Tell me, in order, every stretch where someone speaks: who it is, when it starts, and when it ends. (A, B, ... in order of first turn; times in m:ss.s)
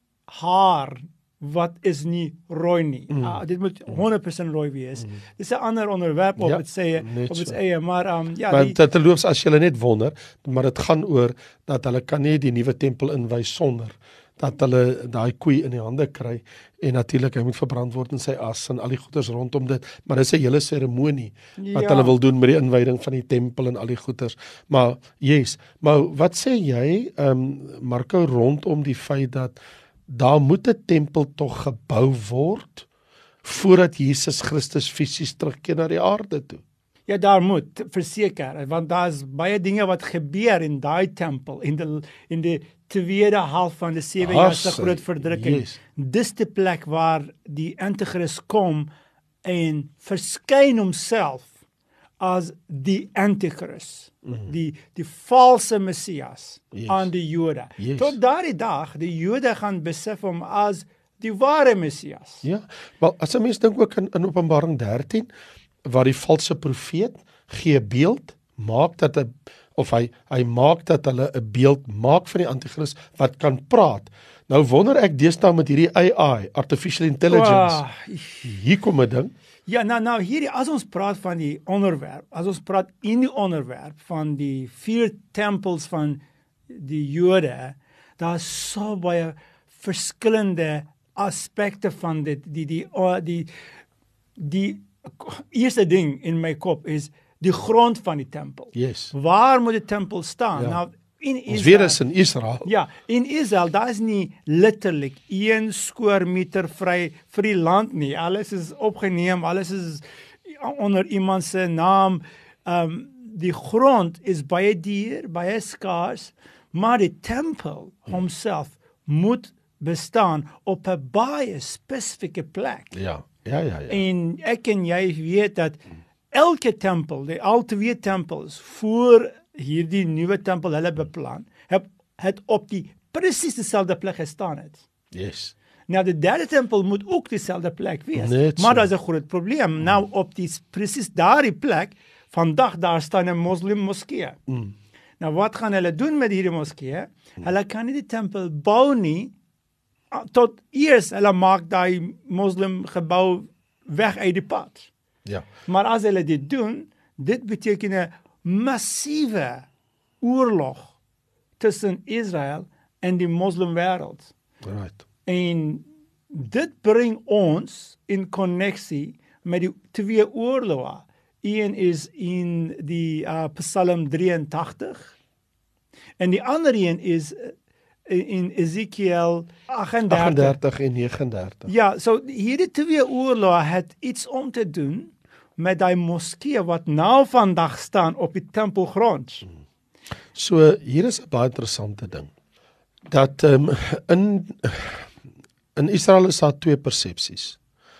0:00.3-0:08.8 A
0:03.1-0:03.4 B
0:06.4-0:07.6 B
0:08.5-0:29.6 B
0:21.6-0:22.1 A
0:30.1-0:32.9 B
0:33.4-0:36.6 B
0:37.1-0:48.9 A
0:44.2-0:45.8 B
0:49.4-0:51.5 A
0:52.2-1:02.4 A
0:56.7-0:57.1 B
0:57.8-0:58.2 B
1:02.4-1:05.3 B
1:05.8-1:17.8 B
1:17.3-1:18.5 A
1:18.4-1:19.3 B
1:19.7-1:33.5 A
1:34.4-1:42.0 A
1:38.7-1:39.1 B
1:41.5-1:42.6 B
1:42.6-2:03.0 A
2:02.9-2:04.0 B
2:03.9-2:05.8 A
2:06.3-2:14.8 A
2:15.1-2:15.5 B
2:15.9-2:24.4 A
2:18.2-2:18.8 B
2:24.5-2:24.7 B
2:25.2-2:29.3 A
2:30.1-2:34.9 A
2:35.7-2:39.6 A
2:40.2-2:40.9 A
2:41.6-2:44.3 A
2:44.6-2:45.0 B
2:45.2-2:55.1 A
2:56.2-2:57.5 A
2:58.1-3:00.6 A
3:00.1-3:01.7 B
3:01.7-3:09.5 A
3:10.3-3:12.3 B
3:13.1-3:15.1 B
3:15.7-3:17.6 B